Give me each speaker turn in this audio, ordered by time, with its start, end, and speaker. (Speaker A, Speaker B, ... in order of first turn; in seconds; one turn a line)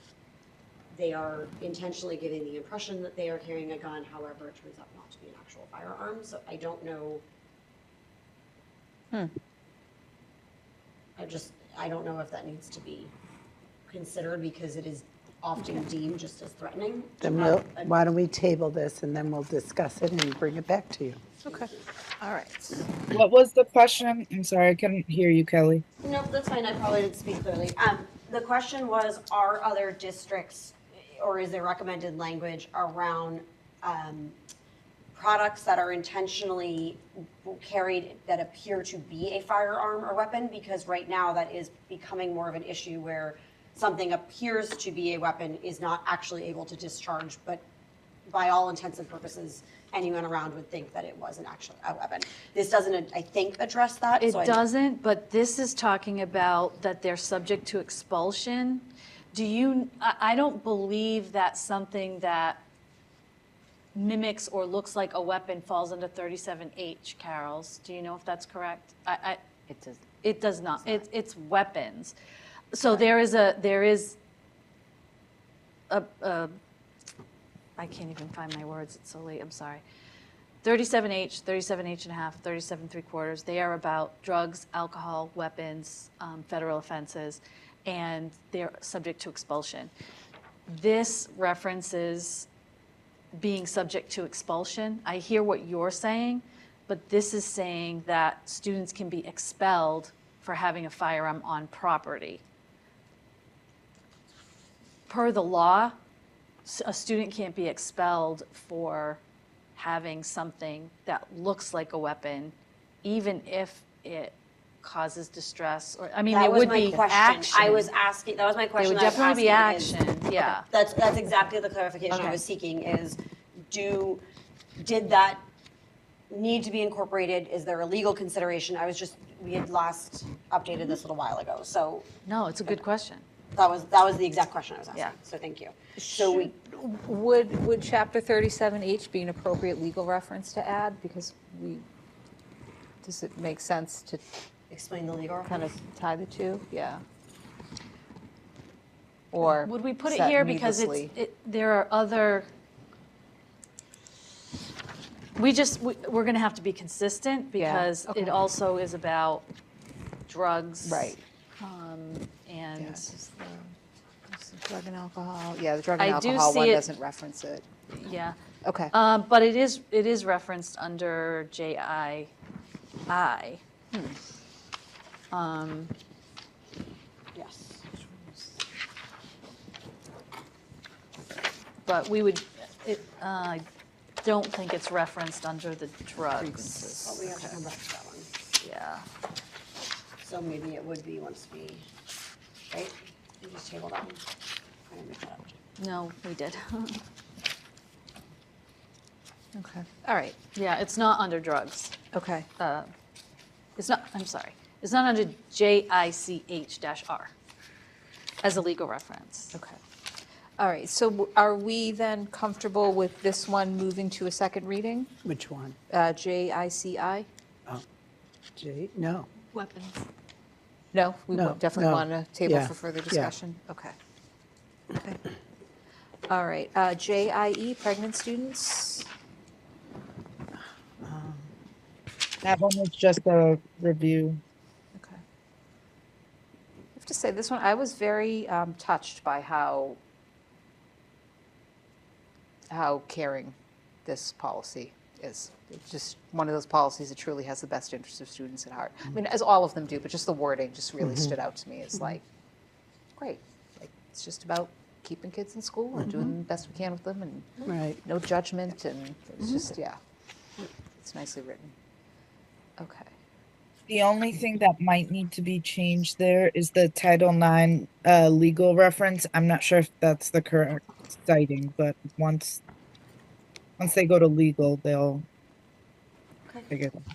Speaker A: 0.9-7.2
Speaker A: 11.2-13.1
Speaker A: 13.9-17.9
Speaker B: 17.2-21.4
Speaker A: 21.5-21.8
Speaker C: 22.2-22.9
Speaker D: 23.1-25.8
Speaker A: 26.0-34.4
Speaker A: 35.1-47.6
Speaker A: 48.3-54.6
Speaker E: 54.2-62.6
Speaker E: 63.9-69.4
Speaker E: 70.2-72.1
Speaker E: 72.7-74.2
Speaker E: 75.9-76.5
Speaker E: 77.8-79.8
Speaker E: 80.6-89.9
Speaker E: 90.7-92.5
Speaker E: 93.3-102.4
Speaker E: 105.1-106.0
Speaker E: 106.6-109.2
Speaker E: 109.7-117.9
Speaker A: 116.3-124.2
Speaker E: 118.8-120.6
Speaker E: 122.1-122.4
Speaker A: 124.8-125.4
Speaker A: 126.3-132.1
Speaker E: 132.2-133.2
Speaker A: 133.5-136.5
Speaker C: 136.0-141.8
Speaker C: 143.0-144.2
Speaker A: 144.7-145.8
Speaker C: 145.4-147.0
Speaker C: 149.3-151.1
Speaker E: 149.4-152.5
Speaker E: 155.3-159.4
Speaker C: 157.6-158.4
Speaker E: 160.3-163.1
Speaker C: 160.8-161.2
Speaker C: 162.8-163.7
Speaker C: 164.3-167.7
Speaker E: 166.0-166.8
Speaker E: 167.9-168.3
Speaker C: 168.6-168.9
Speaker E: 168.9-172.3
Speaker E: 173.1-173.6
Speaker C: 173.9-174.2
Speaker E: 175.3-175.9
Speaker A: 177.3-177.8
Speaker E: 181.8-183.6
Speaker E: 184.2-187.0
Speaker C: 186.3-187.6
Speaker A: 187.0-188.3
Speaker E: 188.6-189.0
Speaker A: 190.2-191.8
Speaker A: 192.7-194.2
Speaker A: 194.9-195.6
Speaker E: 195.8-197.0
Speaker C: 199.5-200.3
Speaker E: 200.4-202.0
Speaker C: 202.1-202.5
Speaker E: 202.6-202.9
Speaker E: 203.8-207.3
Speaker E: 208.4-209.5
Speaker C: 209.5-209.8
Speaker C: 210.6-215.1
Speaker B: 215.2-215.8
Speaker C: 215.9-217.3
Speaker B: 218.6-219.3
Speaker E: 219.5-220.0
Speaker C: 220.9-223.9
Speaker B: 221.3-223.3
Speaker C: 224.9-225.2
Speaker C: 226.3-229.1
Speaker B: 231.0-231.5
Speaker D: 232.4-234.4
Speaker C: 234.9-235.2
Speaker C: 236.9-240.0
Speaker C: 242.7-252.2
Speaker B: 251.0-251.3
Speaker C: 253.2-260.0
Speaker B: 257.6-258.0
Speaker C: 260.9-261.7
Speaker C: 262.8-263.1
Speaker D: 263.9-272.6
Speaker D: 273.8-275.2
Speaker D: 276.7-277.0